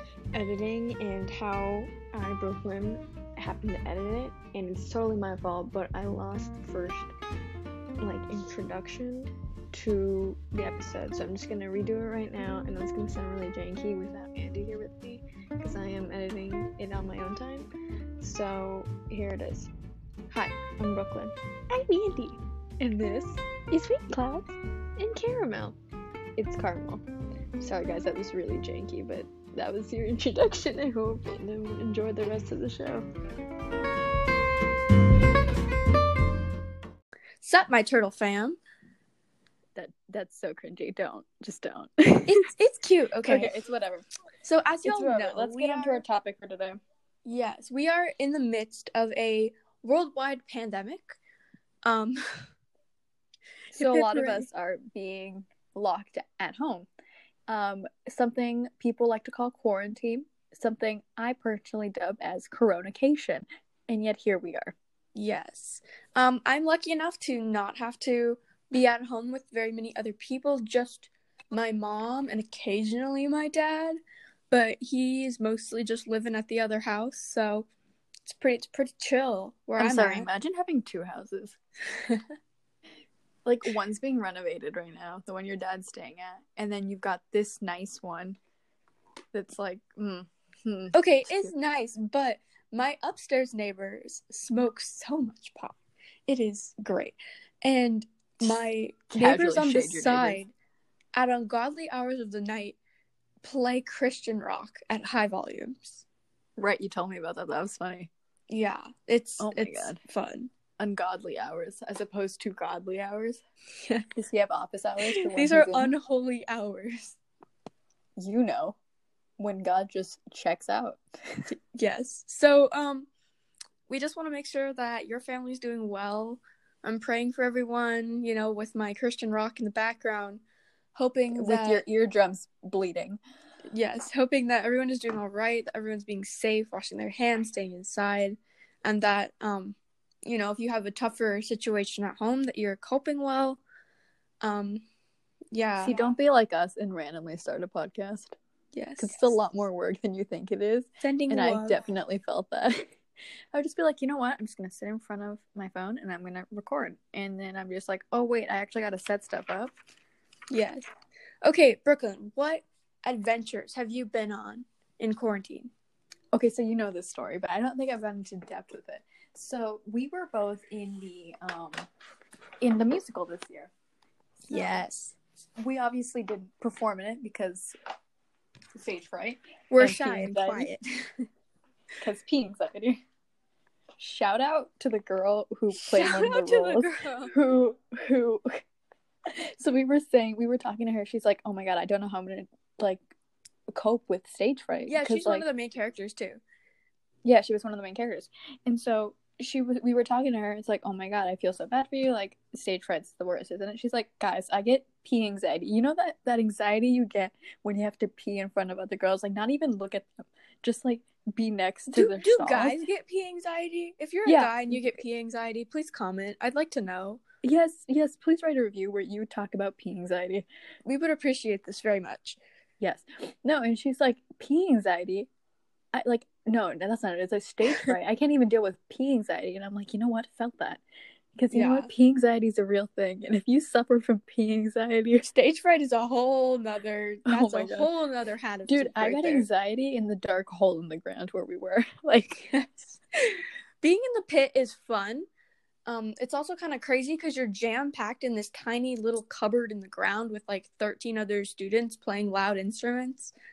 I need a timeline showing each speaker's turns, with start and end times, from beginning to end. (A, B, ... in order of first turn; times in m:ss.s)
0:00.3-0:07.1 A
0:08.0-0:17.7 A
0:18.2-0:19.7 A
0:20.3-0:22.4 A
0:22.8-0:23.3 B
0:23.5-0:24.4 A
0:25.0-0:25.8 A
0:26.4-0:27.0 A
0:27.6-0:33.1 A
0:37.4-0:38.6 C
0:39.8-0:42.5 B
0:42.3-0:43.6 C
0:43.2-0:44.0 B
0:44.4-0:46.0 C
0:44.8-0:46.8 B
0:47.2-0:51.2 C
0:51.8-0:52.2 C
0:53.7-0:54.5 C
0:53.7-0:56.9 B
0:57.5-1:04.7 B
1:05.1-1:14.0 C
1:14.5-1:17.7 C
1:18.2-1:20.3 C
1:19.8-1:21.6 B
1:23.4-1:28.4 B
1:29.3-1:31.5 B
1:30.9-1:40.5 C
1:38.4-1:40.4 B
1:41.1-1:42.8 C
1:43.4-1:46.0 C
1:46.6-1:48.1 B
1:48.5-1:50.5 C
1:49.4-1:50.0 B
1:50.8-1:53.4 B
1:54.1-1:55.9 B
1:55.0-1:57.2 C
1:58.2-1:58.8 B
1:59.4-2:01.0 B
2:01.7-2:03.1 C
2:03.9-2:10.4 C
2:10.9-2:11.8 C
2:11.3-2:13.2 B
2:13.7-2:23.6 C
2:24.4-2:24.8 C
2:25.5-2:26.0 C
2:25.8-2:28.4 B
2:28.7-2:29.3 C
2:29.0-2:33.0 B
2:31.0-2:31.8 C
2:33.5-2:39.7 B
2:40.5-2:40.8 C
2:41.4-2:45.7 C
2:46.3-2:51.9 B
2:52.6-2:53.7 B
2:54.5-2:55.1 C
2:55.6-2:57.7 B
2:58.7-3:00.7 B
2:59.7-3:01.3 C
3:02.0-3:03.0 B
3:04.0-3:08.6 B
3:05.7-3:07.3 C
3:09.2-3:13.0 B
3:13.7-3:15.4 B
3:14.9-3:16.4 C
3:17.2-3:32.8 B
3:31.9-3:37.2 C
3:34.2-3:34.9 B
3:37.4-3:40.4 B
3:40.8-3:42.4 C
3:42.8-3:45.3 B
3:45.9-3:50.8 B
3:47.7-3:47.9 C
3:51.4-3:55.3 B
3:51.5-3:51.9 C
3:55.2-3:59.4 C
3:57.3-3:57.9 B
3:58.7-4:03.0 B
4:03.3-4:05.2 C
4:05.8-4:13.3 C